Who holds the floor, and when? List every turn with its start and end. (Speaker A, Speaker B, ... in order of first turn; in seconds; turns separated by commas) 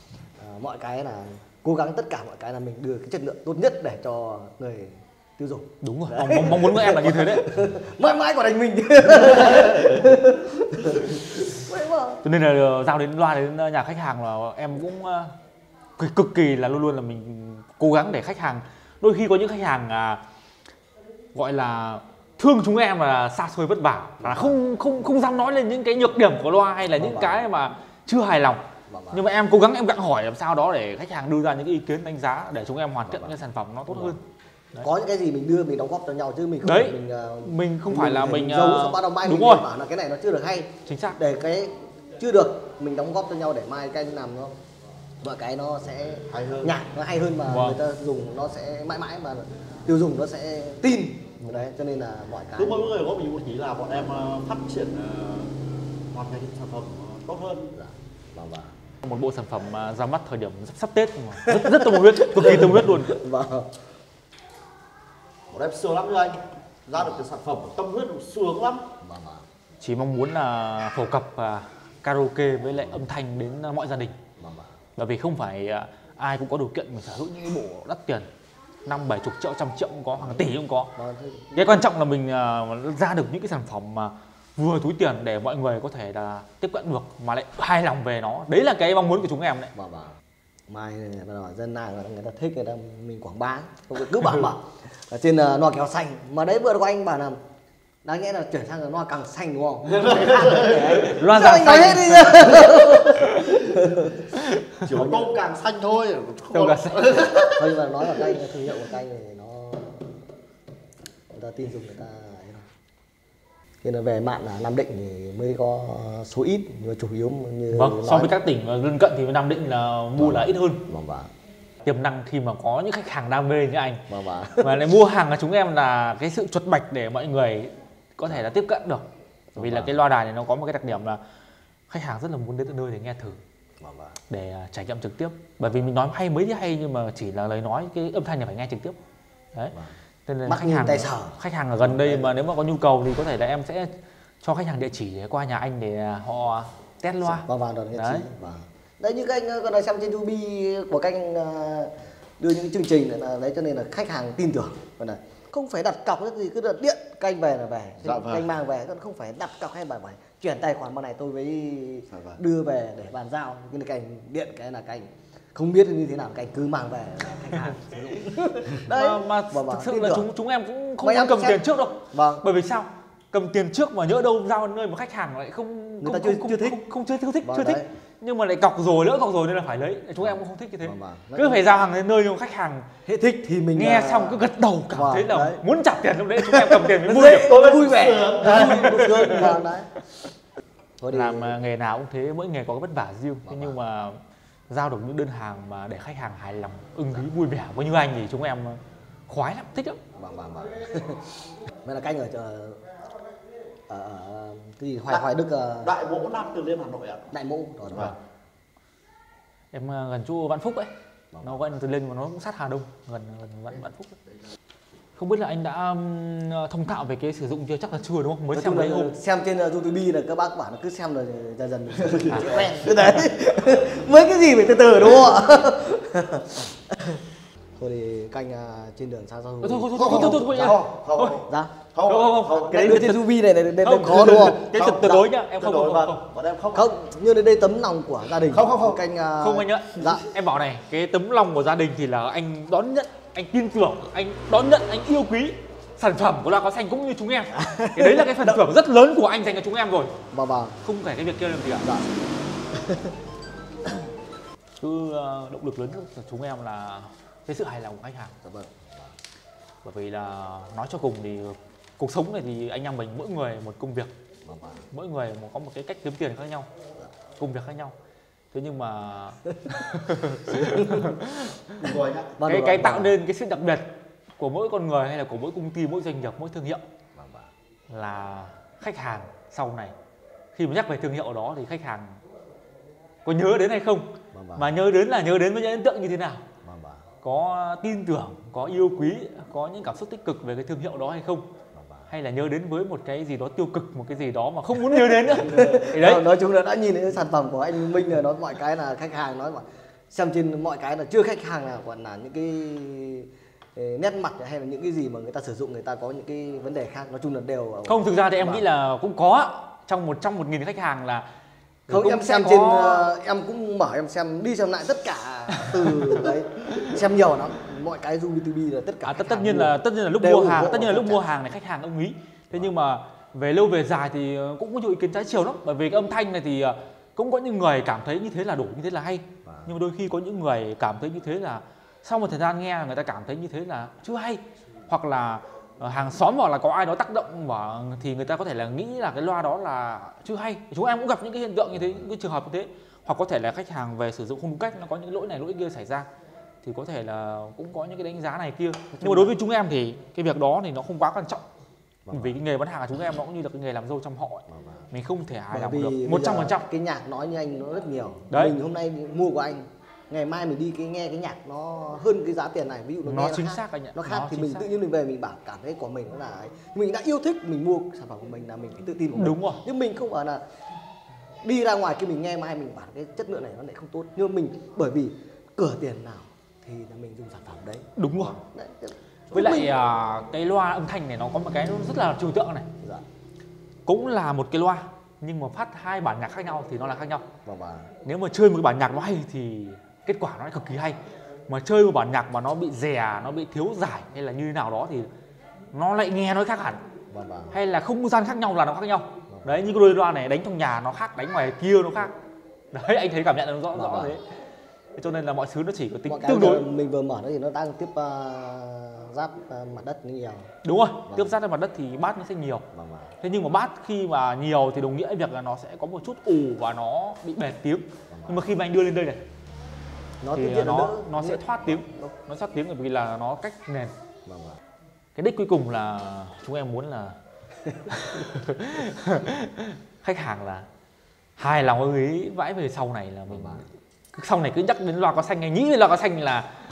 Speaker A: 0.4-12.2, Speaker B: 5.8-7.4, Speaker B: 12.2-15.3, Speaker B: 16.0-20.2, Speaker B: 21.3-34.2, Speaker A: 24.2-24.6, Speaker A: 27.0-27.4, Speaker A: 28.9-29.2, Speaker A: 33.1-33.4, Speaker A: 33.9-34.1, Speaker A: 34.8-44.5, Speaker B: 36.6-39.6, Speaker B: 40.9-41.2, Speaker A: 45.2-52.9, Speaker C: 46.2-46.7, Speaker B: 47.5-47.8, Speaker C: 52.5-55.5, Speaker C: 56.1-57.8, Speaker A: 57.7-58.7, Speaker B: 59.0-63.1, Speaker A: 61.4-63.8, Speaker C: 65.5-68.9, Speaker A: 69.0-69.4, Speaker B: 69.8-74.2, Speaker A: 74.4-74.7, Speaker B: 75.0-78.3, Speaker B: 78.8-80.9, Speaker A: 80.2-81.7, Speaker B: 81.5-89.7, Speaker A: 89.7-97.4, Speaker A: 98.0-104.3, Speaker C: 99.9-101.0, Speaker B: 101.0-103.2, Speaker C: 104.8-107.8, Speaker A: 104.9-105.3, Speaker B: 106.5-107.0, Speaker A: 107.5-110.0, Speaker A: 111.3-112.7, Speaker A: 113.8-118.3, Speaker B: 117.7-120.8, Speaker A: 120.2-121.3, Speaker B: 121.8-124.0, Speaker A: 124.1-124.7, Speaker B: 124.6-129.0, Speaker A: 129.5-129.9, Speaker B: 129.6-131.2, Speaker B: 131.9-133.4, Speaker A: 133.8-134.2, Speaker B: 134.3-138.9, Speaker B: 140.2-148.3, Speaker A: 140.4-142.3, Speaker A: 147.2-170.3, Speaker C: 158.0-158.5, Speaker C: 162.1-162.4, Speaker B: 168.8-182.9, Speaker A: 171.0-172.4, Speaker A: 176.0-176.8, Speaker A: 177.4-177.9, Speaker A: 180.2-181.6, Speaker A: 183.1-185.6, Speaker B: 183.8-187.7, Speaker A: 186.4-189.9, Speaker C: 187.1-189.3, Speaker B: 188.5-189.5, Speaker A: 191.0-191.6, Speaker B: 191.1-200.0, Speaker A: 193.4-193.8, Speaker A: 200.2-202.8, Speaker A: 203.9-205.9, Speaker C: 205.8-207.3, Speaker A: 207.3-208.1, Speaker B: 209.7-210.9, Speaker B: 211.4-214.1, Speaker B: 215.2-219.1, Speaker A: 218.5-227.2, Speaker C: 222.2-222.7, Speaker B: 222.3-222.7, Speaker A: 227.8-230.8, Speaker B: 229.6-231.4, Speaker C: 230.0-232.9, Speaker A: 231.4-231.7, Speaker B: 232.1-233.3, Speaker A: 232.5-234.7, Speaker B: 233.8-236.2, Speaker C: 234.7-236.9, Speaker A: 236.7-240.2, Speaker C: 238.4-239.0, Speaker B: 239.4-250.1, Speaker A: 247.5-248.6, Speaker A: 250.3-250.8, Speaker B: 250.8-251.9, Speaker A: 251.8-252.1, Speaker A: 252.7-253.1, Speaker B: 254.8-258.4, Speaker A: 258.4-259.1, Speaker B: 259.8-264.1, Speaker A: 264.4-264.8, Speaker B: 264.9-266.7, Speaker B: 267.4-267.9, Speaker B: 268.5-271.9, Speaker A: 270.5-271.1, Speaker C: 271.8-272.3, Speaker A: 272.4-273.1, Speaker B: 272.4-276.8, Speaker A: 277.1-277.5, Speaker B: 277.9-279.9, Speaker B: 280.5-282.2, Speaker B: 283.2-286.4, Speaker A: 284.3-284.8, Speaker A: 286.6-287.0, Speaker B: 287.2-291.5, Speaker A: 291.7-292.1, Speaker B: 292.1-296.3, Speaker A: 294.8-308.6, Speaker B: 307.9-311.3, Speaker B: 311.9-313.1, Speaker A: 311.9-321.2, Speaker B: 319.0-346.1, Speaker A: 329.4-329.7, Speaker B: 346.6-351.4, Speaker A: 348.9-349.3, Speaker A: 352.1-352.4, Speaker B: 352.1-356.6, Speaker A: 354.5-354.9, Speaker A: 355.5-370.4, Speaker B: 363.0-364.6, Speaker B: 369.1-369.6, Speaker A: 371.4-379.7, Speaker B: 378.0-378.4, Speaker B: 379.3-382.7, Speaker B: 383.9-387.2, Speaker A: 387.4-387.9, Speaker B: 388.0-395.1, Speaker B: 395.7-396.8, Speaker A: 397.1-397.6, Speaker B: 397.5-402.1, Speaker A: 399.3-399.6, Speaker B: 402.7-404.2, Speaker A: 403.7-404.2, Speaker B: 404.9-406.6, Speaker A: 406.1-410.5, Speaker B: 410.6-412.6, Speaker A: 411.1-411.3, Speaker A: 412.7-413.1, Speaker B: 413.2-419.2, Speaker A: 418.1-418.5, Speaker A: 420.2-422.1, Speaker B: 420.3-423.9, Speaker A: 424.2-424.6, Speaker B: 425.1-427.2, Speaker B: 427.9-430.6, Speaker B: 431.4-436.5, Speaker A: 433.3-433.6